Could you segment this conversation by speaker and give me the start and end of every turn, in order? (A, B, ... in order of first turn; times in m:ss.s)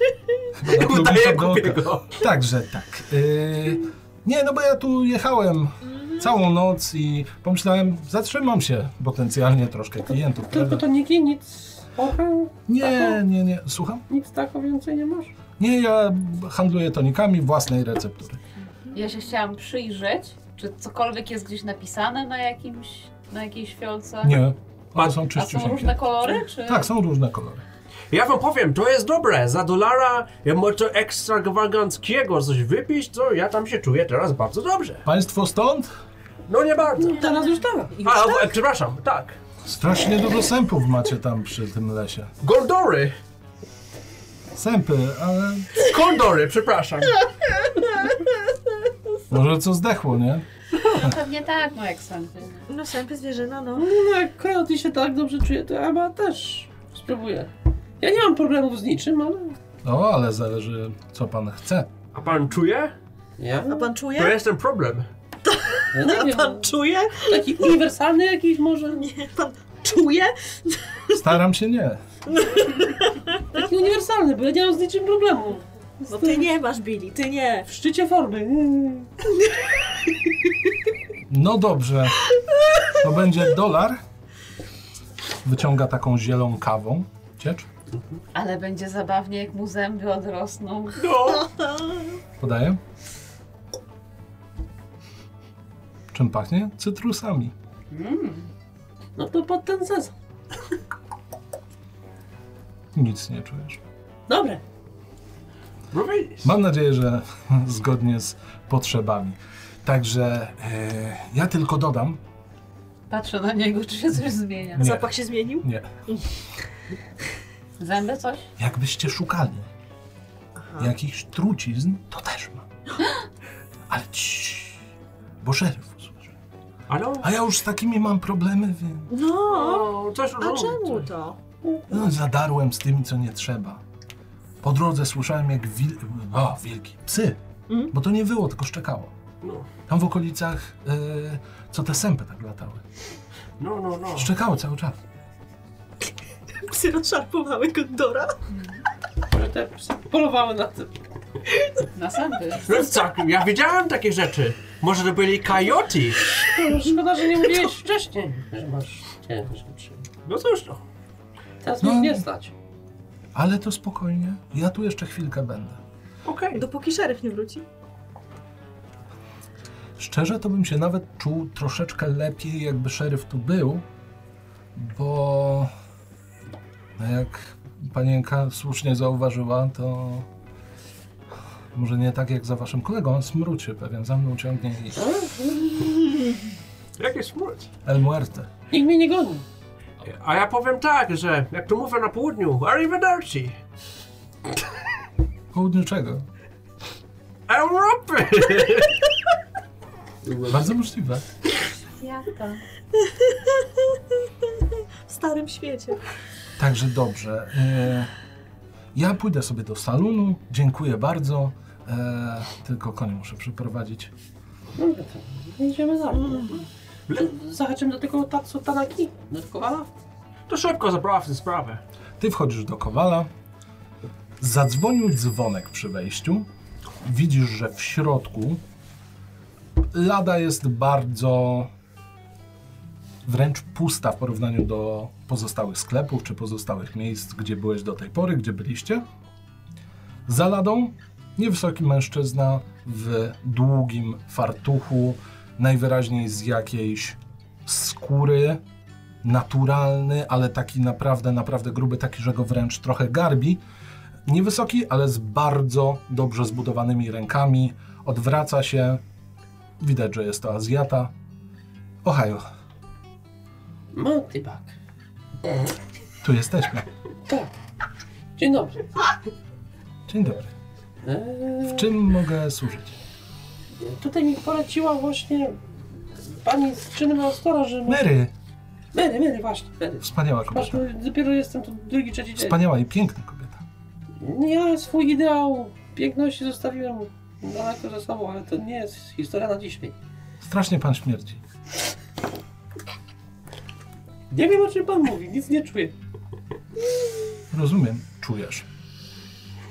0:00.6-0:10.8 A
0:00.6-0:02.2 B
0:10.5-0:13.2 C
0:12.7-0:14.0 A
0:14.1-0:15.3 C
0:15.6-0:18.4 A
0:18.9-0:24.4 D
0:24.2-0:26.0 A
0:25.2-0:26.9 D
0:26.6-0:27.6 A
0:28.1-0:35.0 B
0:35.0-0:35.9 A
0:36.5-0:37.2 B
0:37.0-0:38.0 C
0:38.0-0:39.4 B
0:39.6-0:42.3 A
0:42.4-0:43.1 B
0:44.5-0:45.7 A
0:45.8-0:47.2 B
0:47.8-0:48.1 E
0:49.3-0:50.4 A
0:50.8-0:52.6 D
0:52.7-0:53.9 E
0:53.7-0:59.6 C
0:59.8-1:01.9 A
1:02.1-1:02.9 B
1:03.4-1:03.9 C
1:03.7-1:04.4 E
1:04.1-1:05.1 B
1:05.4-1:07.8 E
1:05.9-1:06.7 C
1:07.3-1:09.0 C
1:09.0-1:11.3 E
1:11.1-1:12.0 A
1:12.3-1:13.5 E
1:13.5-1:16.5 C
1:16.1-1:17.7 E
1:17.7-1:19.1 C
1:21.3-1:22.3 A
1:22.9-1:24.0 A
1:25.4-1:27.7 A
1:28.3-1:31.1 D
1:31.0-1:31.4 B
1:31.4-1:32.1 E
1:32.4-1:32.8 A
1:36.1-1:37.5 A
1:37.9-1:38.5 D
1:39.2-1:40.1 C
1:43.0-1:43.8 A
1:44.3-1:44.6 C
1:45.9-1:46.5 B
1:46.4-1:52.2 A
1:53.1-1:54.9 D
1:54.8-1:55.9 A
1:54.8-1:56.3 E
1:57.8-1:58.4 D
1:58.6-1:59.7 A
2:00.6-2:00.9 E
2:00.8-2:02.7 A
2:03.9-2:04.8 A
2:05.4-2:06.3 A
2:06.9-2:07.3 B
2:07.2-2:09.1 A
2:09.1-2:11.4 E
2:09.5-2:11.1 B
2:11.6-2:12.0 C
2:11.9-2:13.8 A
2:14.6-2:17.4 A
2:17.9-2:19.1 A
2:19.4-2:19.7 B
2:19.9-2:22.8 A
2:23.6-2:24.3 B
2:24.1-2:25.0 A
2:26.6-2:28.4 E
2:28.5-2:28.8 D
2:29.3-2:31.0 C
2:31.9-2:32.7 D
2:32.6-2:36.4 B
2:36.4-2:40.0 C
2:40.3-2:40.8 B
2:41.6-2:42.5 C
2:41.8-2:42.2 A
2:43.4-2:45.8 A
2:46.2-2:46.6 B
2:46.5-2:47.6 E
2:50.0-2:53.8 A
2:54.7-2:55.7 A
2:57.0-3:00.3 A
3:01.7-3:05.1 A
3:05.0-3:06.1 C
3:07.0-3:07.7 B
3:07.8-3:08.5 A
3:08.7-3:09.4 C
3:10.0-3:13.6 B
3:15.5-3:16.2 A
3:17.5-3:19.1 B
3:20.2-3:20.7 C
3:20.5-3:21.2 A
3:22.0-3:22.6 D
3:23.0-3:26.0 E
3:26.6-3:28.1 A
3:28.9-3:34.1 A
3:34.8-3:39.9 C
3:40.5-3:41.8 B
3:42.2-3:43.3 A
3:44.4-3:46.5 A
3:47.0-3:48.6 A
3:49.9-3:51.7 A
3:53.2-3:59.0 A
4:00.3-4:08.6 A
4:09.2-4:13.6 A
4:14.3-4:19.0 A
4:19.8-4:21.1 A
4:22.0-4:22.4 A
4:23.9-4:24.7 C
4:25.4-4:25.7 C
4:26.2-4:26.9 A
4:28.4-4:29.0 C
4:30.1-4:30.5 A
4:31.0-4:31.9 C
4:31.7-4:33.0 A
4:33.8-4:38.1 C
4:37.9-4:38.3 A
4:38.9-4:42.6 C
4:40.0-4:40.8 A
4:42.4-4:43.6 A
4:44.2-4:50.0 C
4:50.4-4:51.4 A
4:54.3-4:56.0 C
4:57.5-4:58.7 A